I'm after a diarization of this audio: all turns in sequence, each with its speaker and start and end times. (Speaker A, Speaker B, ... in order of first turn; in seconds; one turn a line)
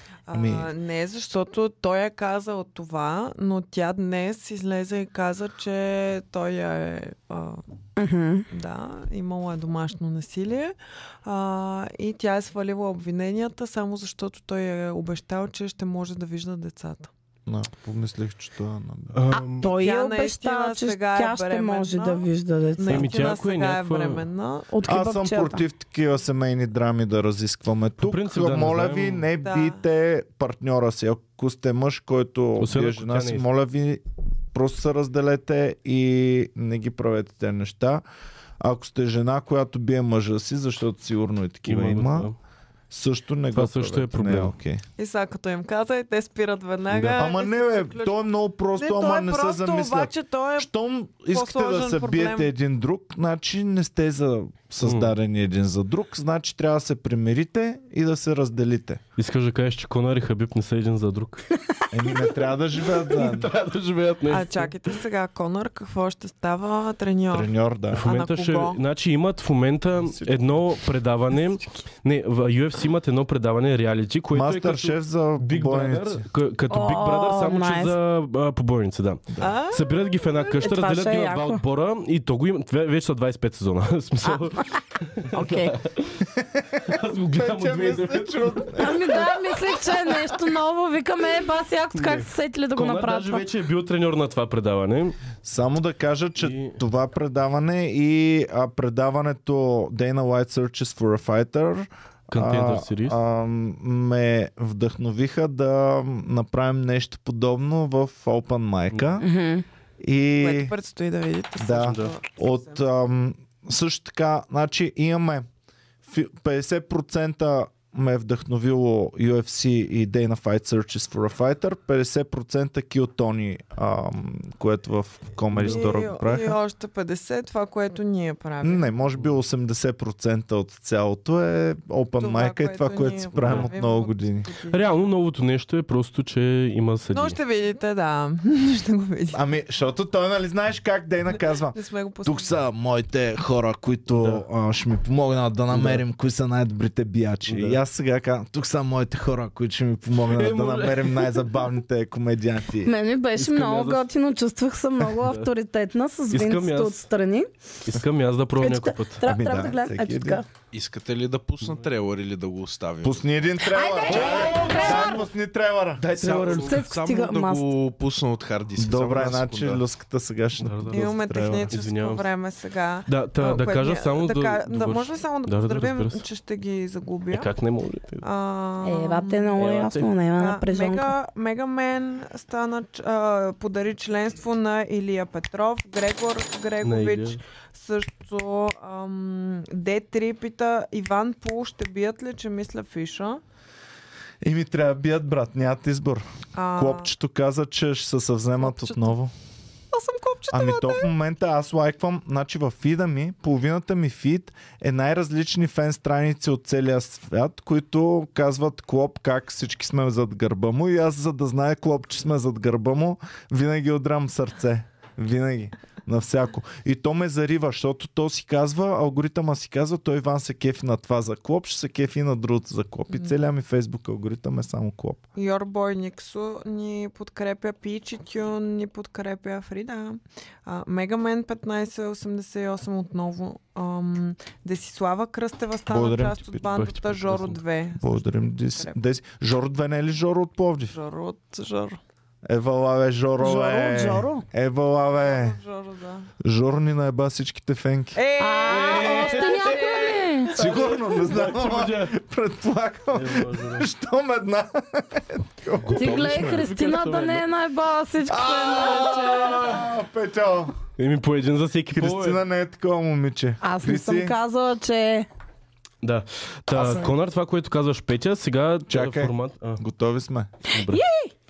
Speaker A: 0.3-7.6
Speaker B: 0.3-0.7
Speaker C: 8.0-8.5
Speaker A: 8.5-17.1
Speaker B: 17.5-19.2
Speaker D: 19.1-19.7
Speaker A: 19.6-24.7
Speaker C: 19.6-23.1
Speaker D: 22.9-24.2
Speaker C: 24.7-25.6
Speaker B: 24.8-38.0
Speaker D: 28.0-29.3
Speaker A: 29.4-29.8
Speaker D: 32.6-33.5
Speaker B: 38.6-42.3
Speaker D: 41.7-42.4
Speaker B: 42.9-44.8
Speaker D: 43.5-44.5
Speaker A: 45.0-48.2
Speaker D: 46.9-47.3
Speaker B: 47.1-59.0
Speaker A: 48.8-50.7
Speaker A: 51.3-52.5
Speaker D: 54.8-55.1
Speaker D: 59.2-61.4
Speaker B: 61.9-63.5
Speaker D: 63.0-64.8
Speaker A: 64.3-67.5
Speaker B: 67.3-68.1
Speaker D: 67.9-86.3
Speaker A: 68.0-68.8
Speaker B: 70.0-70.6
Speaker B: 74.3-76.3
Speaker C: 76.7-78.0
Speaker A: 79.4-80.0
Speaker C: 80.6-81.6
Speaker C: 85.3-85.8
Speaker B: 86.4-86.8
Speaker D: 86.8-88.9
Speaker B: 87.3-89.5
Speaker C: 88.8-93.5
Speaker D: 92.0-95.2
Speaker B: 95.4-109.3
Speaker D: 96.4-96.8
Speaker D: 102.3-103.2
Speaker C: 109.2-109.6
Speaker B: 110.0-110.7
Speaker A: 110.4-112.8
Speaker B: 111.6-115.5
Speaker D: 111.8-112.1
Speaker B: 116.0-126.6
Speaker A: 125.5-128.9
Speaker D: 125.6-125.8
Speaker B: 128.6-134.5
Speaker A: 132.2-134.8
Speaker D: 133.4-133.7
Speaker D: 134.7-137.4
Speaker A: 137.1-139.4
Speaker B: 139.3-152.9
Speaker A: 141.4-142.5
Speaker D: 144.2-144.4
Speaker D: 145.7-146.0
Speaker D: 147.5-147.8
Speaker D: 150.3-151.6
Speaker C: 152.8-157.5
Speaker D: 153.4-154.1
Speaker D: 155.1-155.5
Speaker D: 156.3-157.0
Speaker D: 157.9-159.2
Speaker C: 158.6-160.5
Speaker B: 159.2-160.4
Speaker E: 160.7-163.3
Speaker B: 163.0-166.7
Speaker C: 163.7-165.2
Speaker D: 164.1-165.1
Speaker E: 164.2-165.0
Speaker E: 166.0-169.8
Speaker C: 166.5-167.7
Speaker B: 168.8-171.7
Speaker D: 170.6-171.1
Speaker A: 170.9-177.5
Speaker D: 171.7-172.3
Speaker D: 173.1-176.2
Speaker D: 177.3-178.2
Speaker A: 178.2-179.8
Speaker C: 178.8-181.1
Speaker D: 179.6-180.1
Speaker A: 180.4-193.4
Speaker D: 186.8-187.4
Speaker B: 194.4-199.3
Speaker A: 196.6-197.1
Speaker A: 198.6-199.1
Speaker A: 199.9-201.1
Speaker B: 200.5-225.2
Speaker A: 225.4-239.0
Speaker B: 235.9-236.6
Speaker D: 236.6-237.6
Speaker B: 238.0-240.9
Speaker A: 240.9-242.0
Speaker B: 242.4-245.6
Speaker C: 243.4-244.4
Speaker A: 245.2-246.3
Speaker B: 246.4-248.2
Speaker A: 248.2-250.2
Speaker C: 248.4-250.6
Speaker D: 248.7-252.2
Speaker B: 250.5-256.7
Speaker D: 253.1-253.9
Speaker D: 255.9-257.5
Speaker C: 255.9-259.7
Speaker B: 258.3-260.7
Speaker D: 261.0-262.4
Speaker B: 261.9-264.4
Speaker C: 263.6-265.3
Speaker D: 266.0-269.8
Speaker B: 266.8-267.1
Speaker B: 268.9-270.5
Speaker D: 270.7-271.0
Speaker C: 270.9-271.3